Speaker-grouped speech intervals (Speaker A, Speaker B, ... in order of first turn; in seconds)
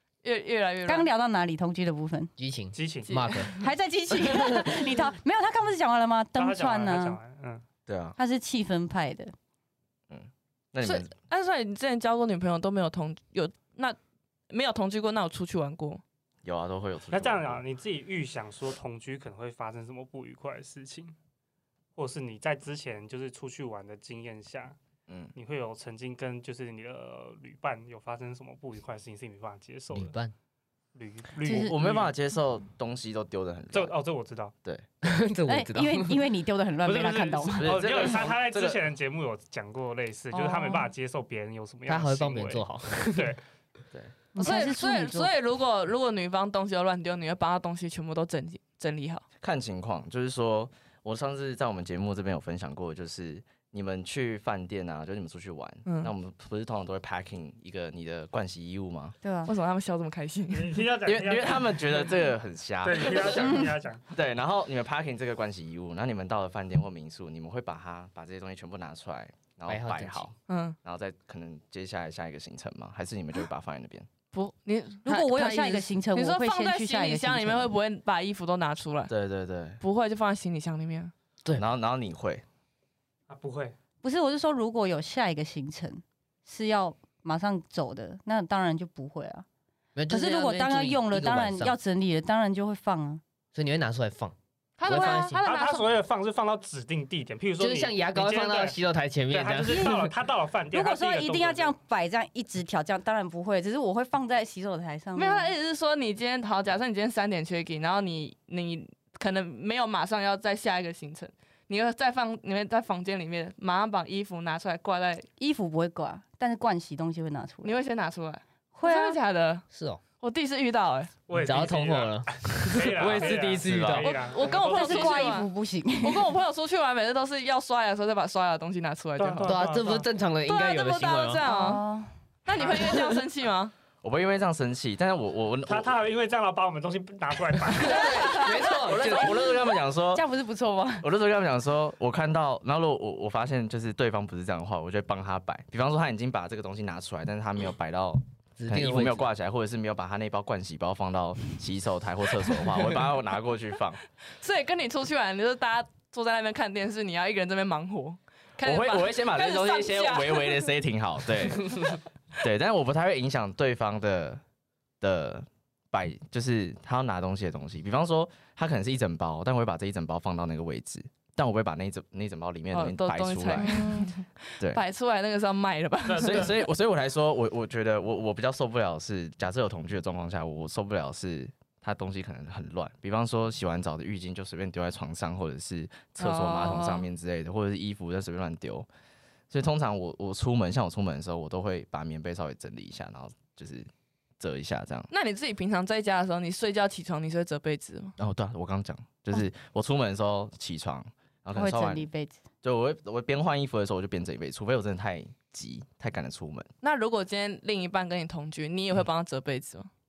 Speaker A: 0.2-1.1, 3.1-3.6, 10.8-14.0, 14.5-16.0, 44.4-49.2, 55.9-56.1, 59.5-60.8, 70.5-70.8, 74.3-75.0, 76.1-79.1, 79.8-81.1, 94.8-95.4, 105.2-115.3, 117.6-119.6, 120.2-121.2, 124.2-129.6, 130.4-131.8, 132.4-133.7, 137.9-138.6, 154.4-160.7, 172.7-176.7, 186.2-187.1, 195.1-198.1, 206.8-209.9
Speaker B: 0.9-2.3, 3.6-7.2, 8.2-9.3, 31.4-32.0, 35.5-37.8, 40.3-40.9, 44.3-45.3, 59.2-59.5, 75.0-77.7, 84.0-89.5, 90.1-93.2, 94.8-95.8, 99.7-100.1, 100.7-105.5, 115.4-117.7, 118.7-119.2, 124.6-126.3, 131.4-132.1, 140.1-141.1, 173.6-174.1, 201.5-202.4
Speaker C: 2.4-3.5, 29.9-30.3, 35.0-36.2, 41.9-43.4, 69.7-70.3, 75.1-76.0, 90.0-91.7, 93.5-94.3, 94.8-95.4, 97.6-100.0, 119.7-120.0, 121.3-124.2, 129.4-131.4, 137.8-139.3, 148.6-149.3
Speaker D: 2.7-3.2, 6.3-7.6, 17.1-21.1, 21.9-24.8, 25.3-30.1, 30.9-32.1, 33.7-34.5, 36.8-43.4, 60.5-62.2, 62.8-64.0, 83.3-83.7, 95.4-98.8, 99.3-101.7, 121.3-125.1, 129.2-130.1, 135.7-139.0, 176.1-176.6
Speaker E: 7.9-8.2, 10.1-11.1, 16.4-17.6, 25.1-25.3, 31.6-33.9, 37.6-38.8, 49.4-59.1, 61.0-70.3, 70.8-74.1, 79.1-79.8, 81.5-82.4, 123.0-124.2, 134.0-136.0, 138.7-140.2, 141.0-154.0, 158.6-164.4, 165.0-173.8, 176.2-188.9, 189.5-193.9, 194.4-195.1, 198.2-202.1, 202.6-206.7